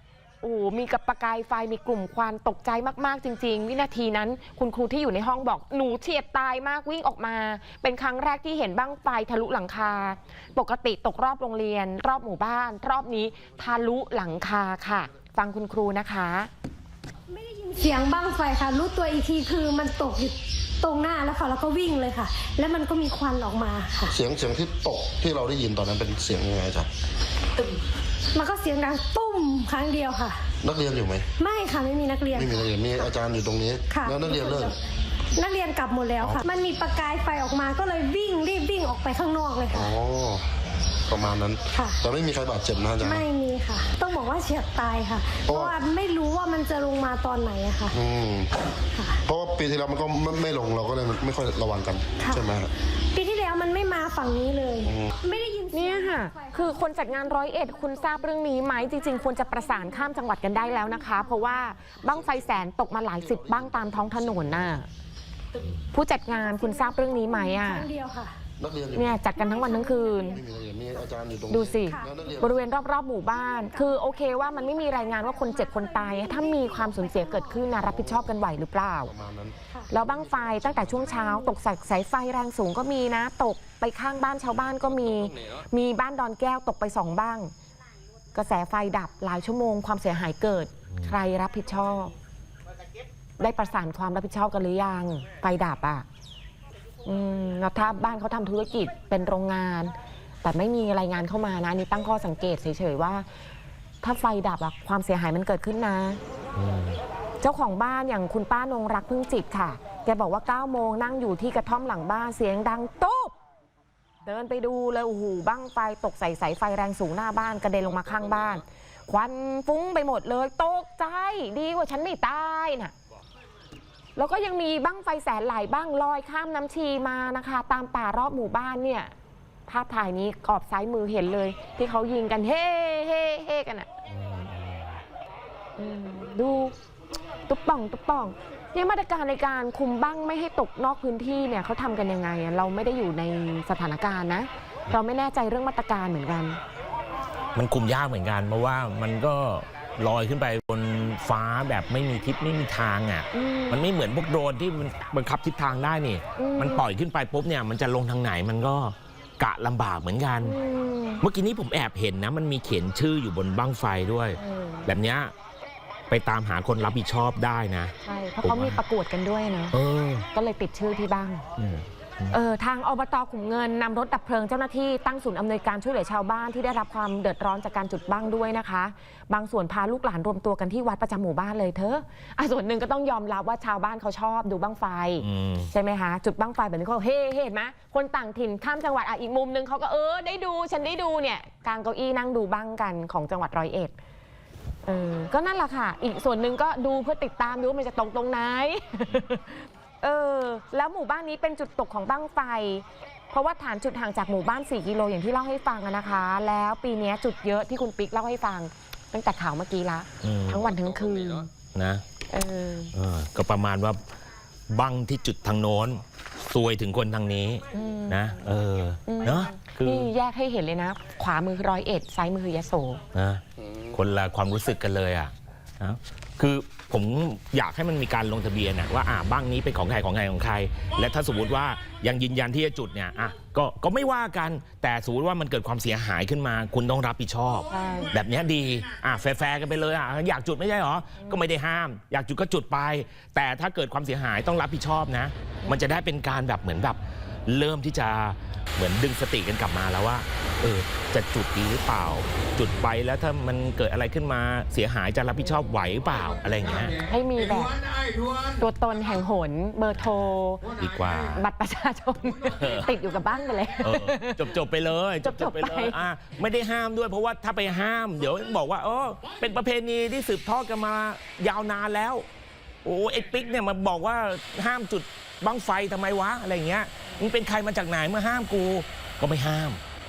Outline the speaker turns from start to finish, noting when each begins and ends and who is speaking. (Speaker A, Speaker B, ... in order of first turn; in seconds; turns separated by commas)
Speaker A: 0.4-16.5, Speaker B: 17.3-24.1, Speaker C: 24.1-26.9, Speaker B: 28.3-30.4, Speaker C: 30.6-31.3, Speaker B: 31.4-33.1, Speaker C: 32.3-34.8, Speaker B: 33.9-34.8, Speaker B: 35.3-39.9, Speaker C: 39.7-40.5, Speaker C: 41.1-43.2, Speaker B: 41.7-42.0, Speaker B: 43.0-48.0, Speaker C: 45.5-45.8, Speaker C: 47.9-48.6, Speaker B: 48.9-49.2, Speaker C: 49.2-52.7, Speaker B: 52.2-52.4, Speaker B: 53.1-58.2, Speaker C: 54.8-55.1, Speaker A: 55.7-64.9, Speaker B: 58.8-61.5, Speaker C: 62.0-64.8, Speaker A: 65.9-67.9, Speaker B: 66.3-68.3, Speaker C: 68.6-69.2, Speaker A: 68.9-70.4, Speaker B: 69.3-70.4, Speaker C: 70.2-72.6, Speaker A: 71.5-79.1, Speaker B: 71.8-72.1, Speaker B: 73.3-77.8, Speaker C: 77.8-78.3, Speaker C: 79.0-81.3, Speaker A: 79.9-87.5, Speaker B: 81.0-81.5, Speaker A: 88.3-92.1, Speaker A: 93.4-96.0, Speaker A: 97.0-103.3, Speaker A: 104.0-106.2, Speaker D: 106.5-107.0, Speaker A: 107.4-113.3, Speaker A: 114.2-122.9, Speaker A: 124.2-129.1, Speaker A: 129.7-133.9, Speaker D: 134.1-135.0, Speaker A: 135.8-136.8, Speaker A: 137.5-146.6, Speaker D: 147.5-160.6, Speaker A: 153.3-153.9, Speaker A: 156.3-156.8, Speaker A: 160.4-161.2, Speaker D: 161.2-165.3, Speaker A: 164.4-164.9, Speaker D: 166.1-168.8, Speaker A: 168.0-169.7, Speaker D: 169.7-170.3, Speaker A: 170.3-171.4, Speaker D: 171.6-172.3, Speaker A: 172.3-193.9, Speaker D: 185.2-185.7, Speaker A: 194.8-211.5, Speaker D: 210.2-210.7, Speaker D: 211.7-212.0, Speaker A: 212.3-212.9, Speaker D: 212.9-214.0, Speaker D: 214.7-220.1, Speaker A: 217.7-218.4, Speaker A: 219.1-223.0, Speaker D: 223.1-257.0, Speaker A: 237.7-238.1, Speaker A: 257.0-257.8, Speaker A: 258.5-260.7, Speaker D: 260.8-261.4, Speaker A: 261.3-264.6, Speaker D: 262.6-262.9, Speaker D: 263.8-272.2, Speaker A: 265.2-266.0, Speaker D: 272.8-279.8